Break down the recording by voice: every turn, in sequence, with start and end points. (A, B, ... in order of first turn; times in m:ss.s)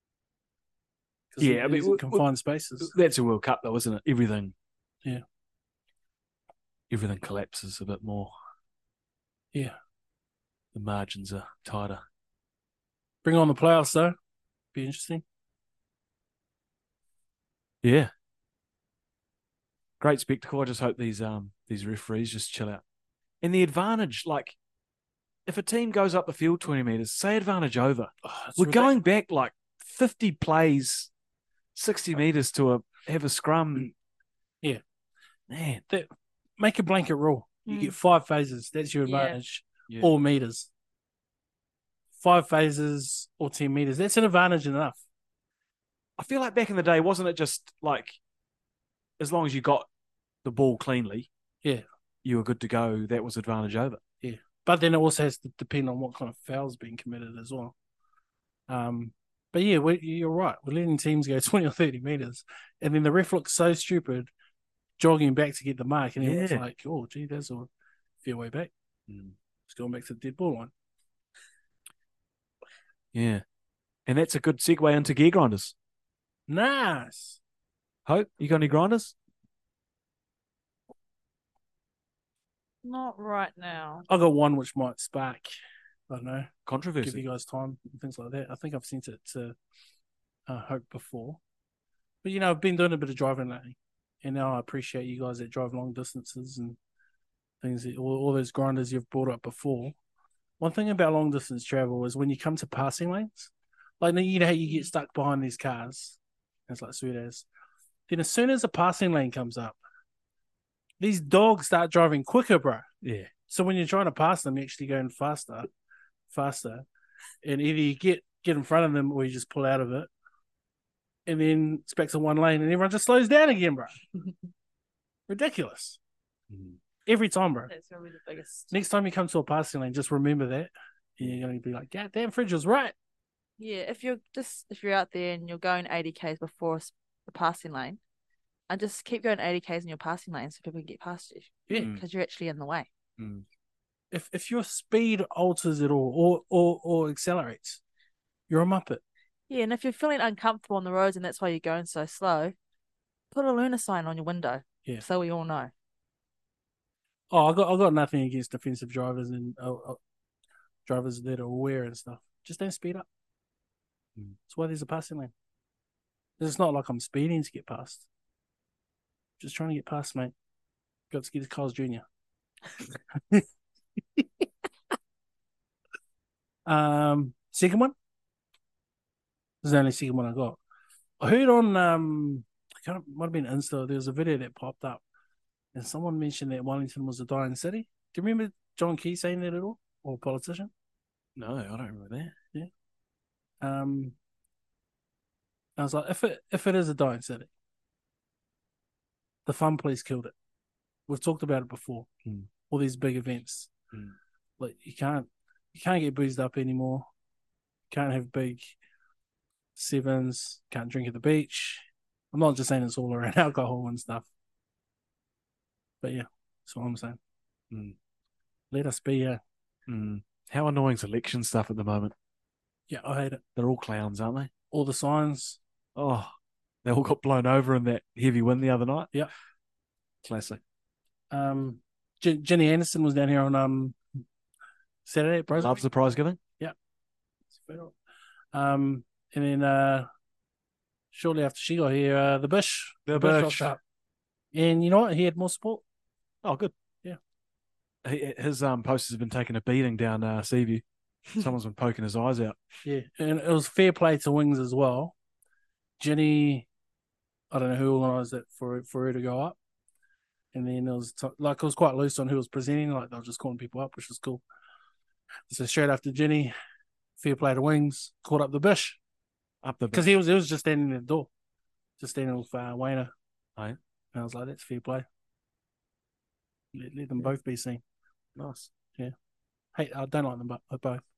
0:01.3-0:02.9 A
0:01.4-0:02.2 B
0:02.8-0:04.5 B
0:06.9-0:08.3 B
0:10.7-0:12.0 B
0:13.2-0:14.2 A
0:14.7-0:15.2 A
0:17.8-0:18.1 B
0:20.0-0:22.8 B
0:23.4-0:24.6 B
0:25.5-0:31.1 B
0:28.2-0:28.9 A
0:31.8-0:33.9 B
0:35.5-0:35.8 B
0:36.6-0:40.7 A
0:37.7-0:38.0 C
0:39.0-0:39.4 C
0:42.2-0:45.0 A
0:46.2-0:48.2 B
0:49.2-0:49.9 B
0:50.4-0:51.3 B
0:52.2-0:54.0 B
0:54.2-0:57.7 A
0:58.7-1:04.3 A
1:05.0-1:07.7 A
1:06.2-1:06.6 B
1:08.2-1:08.7 A
1:09.1-1:09.4 B
1:09.7-1:10.7 A
1:13.1-1:13.4 B
1:14.1-1:15.7 B
1:16.5-1:17.4 A
1:18.1-1:19.1 B
1:22.8-1:24.0 C
1:24.1-1:25.5 A
1:26.1-1:26.5 A
1:26.7-1:27.2 B
1:27.0-1:29.6 A
1:30.5-1:31.4 A
1:32.2-1:36.8 A
1:37.6-1:40.0 A
1:40.6-1:47.5 A
1:48.1-1:49.8 A
1:51.0-1:52.9 A
1:53.0-1:53.3 B
1:53.5-1:55.7 A
1:56.3-1:56.8 A
1:57.4-2:00.1 A
2:01.3-2:04.0 A
2:05.3-2:06.0 A
2:06.5-2:06.8 B
2:07.1-2:07.7 A
2:07.7-2:08.7 C
2:08.7-2:12.9 A
2:13.6-2:18.0 C
2:18.7-2:22.9 C
2:21.8-2:22.0 B
2:23.2-2:23.4 B
2:24.1-2:27.8 A
2:28.5-2:29.0 A
2:29.5-2:32.6 C
2:33.3-2:35.7 C
2:37.3-2:40.0 A
2:40.9-2:43.1 A
2:44.5-2:45.3 A
2:46.4-2:48.0 A
2:49.4-2:50.3 A
2:51.1-2:52.0 A
2:56.7-2:57.9 A
2:59.6-3:00.6 A
3:01.2-3:05.0 A
3:05.7-3:10.7 A
3:11.4-3:12.3 B
3:13.6-3:14.2 A
3:15.8-3:17.5 A
3:19.5-3:20.3 A
3:21.1-3:22.1 A
3:22.7-3:23.7 A
3:24.6-3:27.1 A
3:27.9-3:28.8 A
3:29.8-3:34.3 A
3:36.0-3:37.2 A
3:37.7-3:38.0 B
3:38.7-3:39.4 A
3:39.9-3:42.1 B
3:42.9-3:43.4 A
3:43.6-3:44.5 B
3:44.7-3:45.6 A
3:46.0-3:46.3 B
3:46.8-3:49.1 B
3:50.2-3:50.6 B
3:51.3-3:54.0 A
3:55.1-3:55.8 A
3:55.6-3:56.4 B
3:57.5-3:57.9 A
3:58.5-4:00.1 A
4:01.1-4:03.8 A
4:03.1-4:03.7 B
4:04.5-4:05.8 A
4:06.4-4:06.7 B
4:08.0-4:10.8 B
4:11.3-4:12.6 B
4:12.8-4:15.1 A
4:16.0-4:16.7 A
4:17.5-4:19.6 A
4:20.5-4:24.4 A
4:25.5-4:26.5 A
4:27.2-4:29.0 A
4:29.6-4:30.2 B
4:29.9-4:31.3 A
4:32.0-4:33.1 A
4:34.1-4:35.0 A
4:36.7-4:37.8 A
4:38.4-4:38.7 B
4:39.8-4:41.0 A